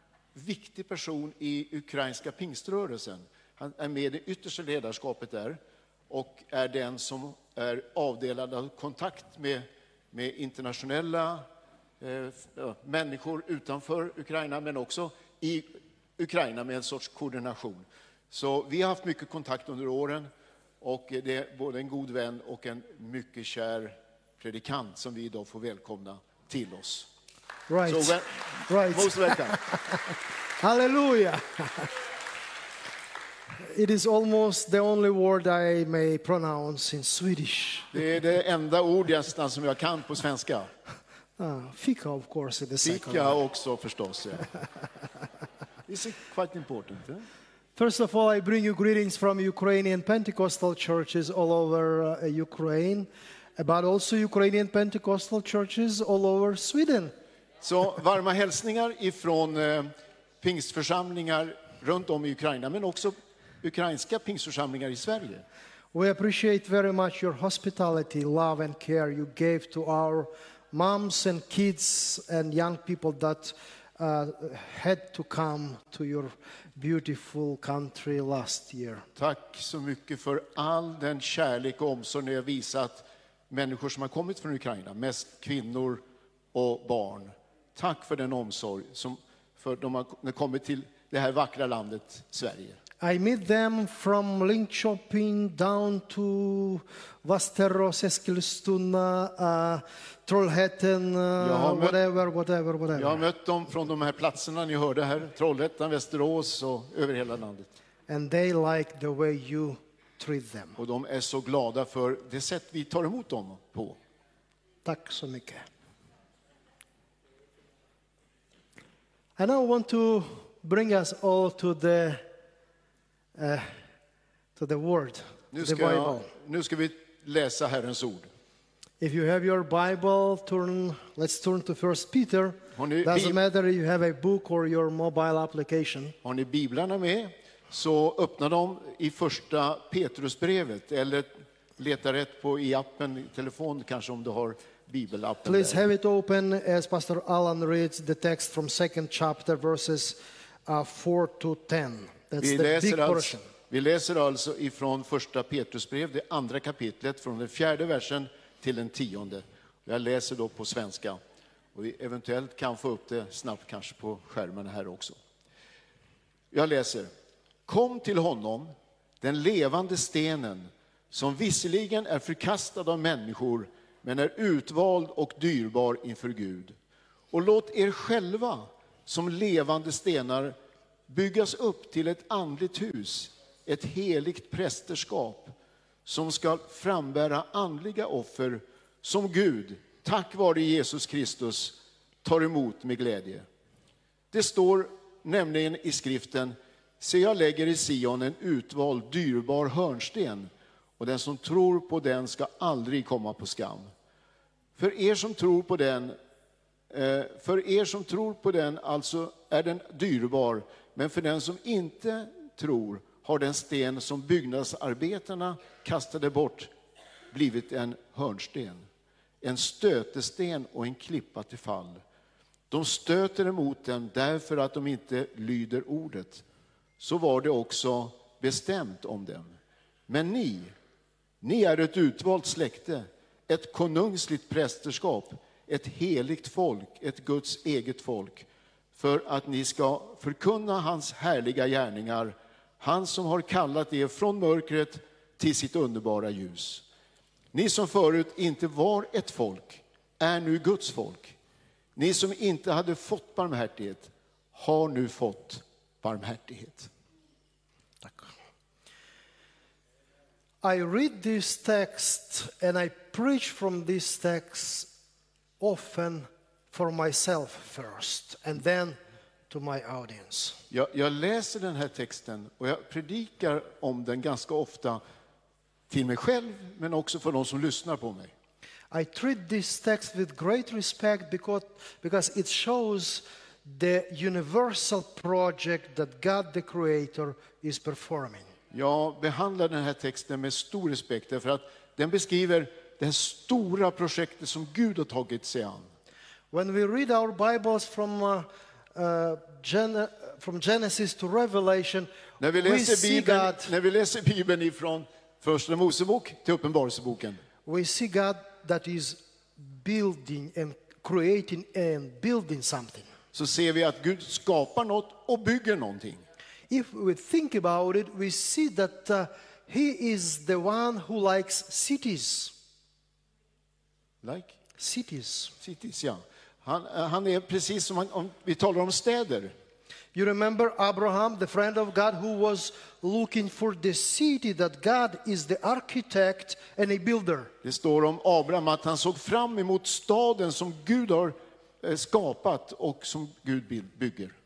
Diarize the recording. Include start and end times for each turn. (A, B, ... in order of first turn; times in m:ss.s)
0:00.3-0:05.6 A
0:06.1-0:11.4 A
0:12.0-0:20.3 A
0:20.8-0:27.1 A
0:27.7-0:31.9 B
0:27.9-0:29.6 A
0:33.6-0:37.9 B
0:37.9-0:40.7 A
0:41.4-0:43.4 B
0:42.8-0:44.5 A
0:45.9-0:47.2 A
0:47.8-0:57.1 B
0:57.6-1:05.4 A
1:05.9-1:19.0 B
1:19.2-1:26.0 A
1:26.5-1:32.8 A
1:33.0-1:43.2 B
1:41.4-1:42.0 A
1:42.9-1:47.7 A
1:48.1-1:50.8 B
1:50.8-1:54.0 A
1:54.8-1:55.6 B
1:59.4-2:02.2 B
2:03.3-2:03.7 B
2:04.6-2:06.3 B
2:05.5-2:08.3 A
2:09.0-2:16.1 B
2:12.8-2:13.4 A
2:16.2-2:25.8 A
2:25.4-2:33.4 B
2:32.4-2:41.2 A
2:41.7-2:45.2 A
2:46.5-2:47.1 A
2:47.6-2:56.7 A
2:57.3-3:00.5 A
3:01.1-3:05.5 A
3:06.0-3:13.4 A
3:14.3-3:23.9 A
3:24.8-3:26.2 A
3:26.9-3:36.7 A
3:37.3-3:38.8 A
3:39.4-3:42.0 A
3:42.7-3:46.4 A
3:47.0-3:49.5 A
3:50.1-3:50.7 A
3:51.4-4:06.8 A
4:07.5-4:11.4 A
4:12.0-4:16.9 A
4:20.6-4:24.9 B
4:25.6-4:29.0 B
4:29.5-4:30.6 B
4:30.7-4:35.0 A
4:35.9-4:38.3 A
4:38.9-4:48.5 B
4:48.7-4:55.9 A
4:56.5-5:03.7 B
5:02.4-5:07.4 A
5:07.6-5:13.0 B
5:13.3-5:16.2 A
5:16.7-5:22.5 B
5:24.2-5:24.6 A
5:24.8-5:25.5 B
5:25.6-5:29.5 A
5:30.1-5:37.5 B
5:37.6-5:44.3 A